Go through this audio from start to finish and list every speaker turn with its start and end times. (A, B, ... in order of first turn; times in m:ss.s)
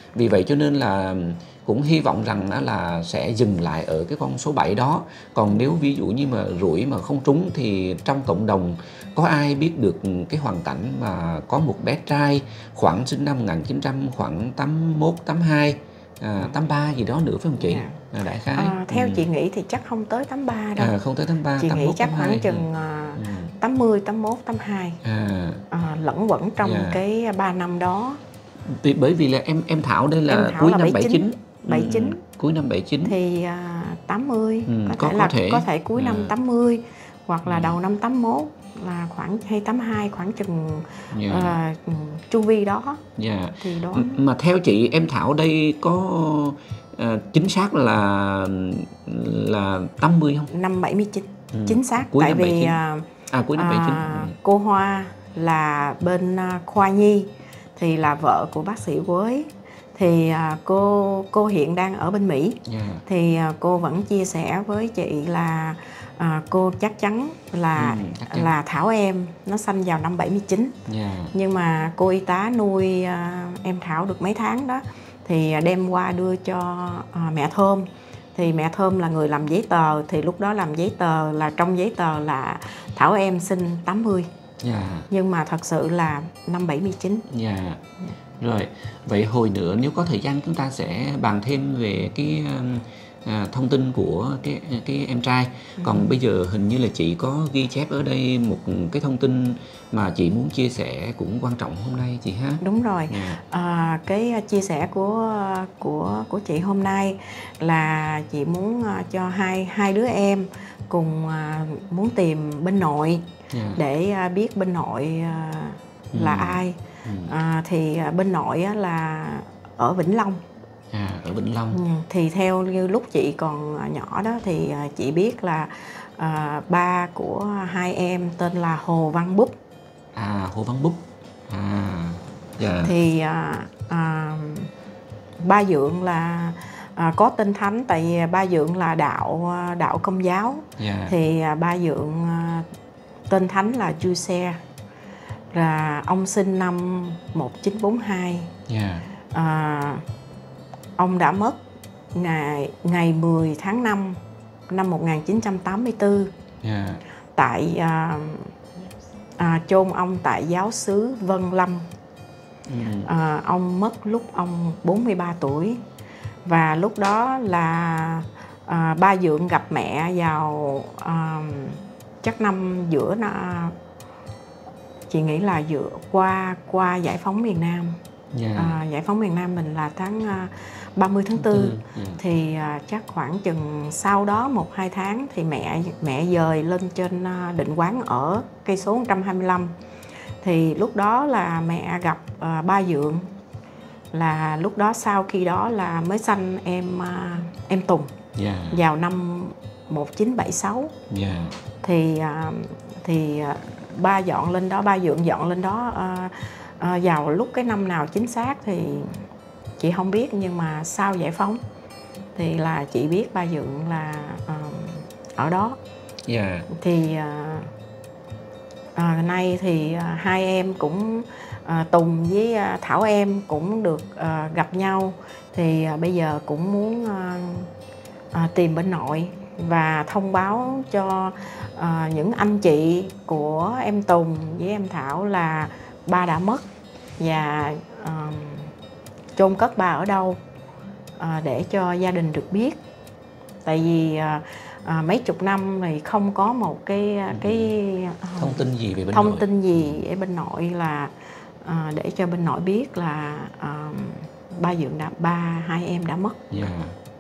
0:00.2-0:19.2 A
0:17.6-0:18.0 B
0:18.5-0:20.9 B
0:20.8-0:23.5 A
0:21.6-0:25.0 B
0:25.0-0:25.6 A
0:25.7-0:28.2 B
0:26.6-0:27.0 A
0:28.6-0:33.2 A
0:30.3-0:32.2 B
0:33.0-0:43.0 B
0:34.7-0:36.4 A
0:37.5-0:37.8 A
0:41.1-0:41.6 A
0:43.2-0:50.5 A
0:43.6-0:44.2 B
0:50.5-1:10.8 B
0:51.5-0:54.4 A
1:02.7-1:03.0 A
1:07.8-1:08.5 A
1:10.9-1:11.3 A
1:11.3-1:24.3 B
1:24.6-1:25.1 A
1:25.1-1:27.3 B
1:27.3-1:27.8 A
1:28.4-1:43.4 A
1:35.8-1:36.1 B
1:42.6-1:53.2 B
1:53.5-1:53.8 A
1:53.8-2:00.4 B
1:56.1-1:57.3 A
2:00.9-2:01.8 A
2:01.7-2:09.6 B
2:10.2-2:13.0 A
2:12.8-2:14.7 B
2:15.4-2:22.7 B
2:20.8-2:21.2 A
2:23.3-2:24.6 B
2:25.5-2:28.5 B
2:28.7-2:29.0 A
2:29.3-2:30.0 B
2:31.0-2:31.6 B
2:32.1-2:36.3 B
2:36.6-2:37.0 A
2:37.4-2:38.5 B
2:39.4-2:41.9 B
2:42.7-2:43.1 A
2:43.0-2:45.8 B
2:46.5-2:53.8 B
2:55.1-2:58.0 B
2:58.3-2:58.8 A
2:58.6-3:09.7 B
3:01.4-3:02.2 A
3:10.4-3:13.3 B
3:14.1-3:18.1 B
3:18.4-3:18.8 A
3:18.7-3:20.9 B
3:21.1-3:21.6 A
3:21.8-3:29.3 B
3:29.8-3:31.6 B
3:32.4-3:35.8 B
3:36.3-3:36.7 A
3:36.7-3:37.7 B
3:39.0-3:47.7 B
3:48.3-3:56.6 B
3:57.2-3:58.7 B
3:59.4-4:00.4 B
4:01.2-4:02.8 B
4:03.6-4:16.4 B
4:07.3-4:07.7 A
4:08.4-4:10.0 A
4:16.5-4:17.0 A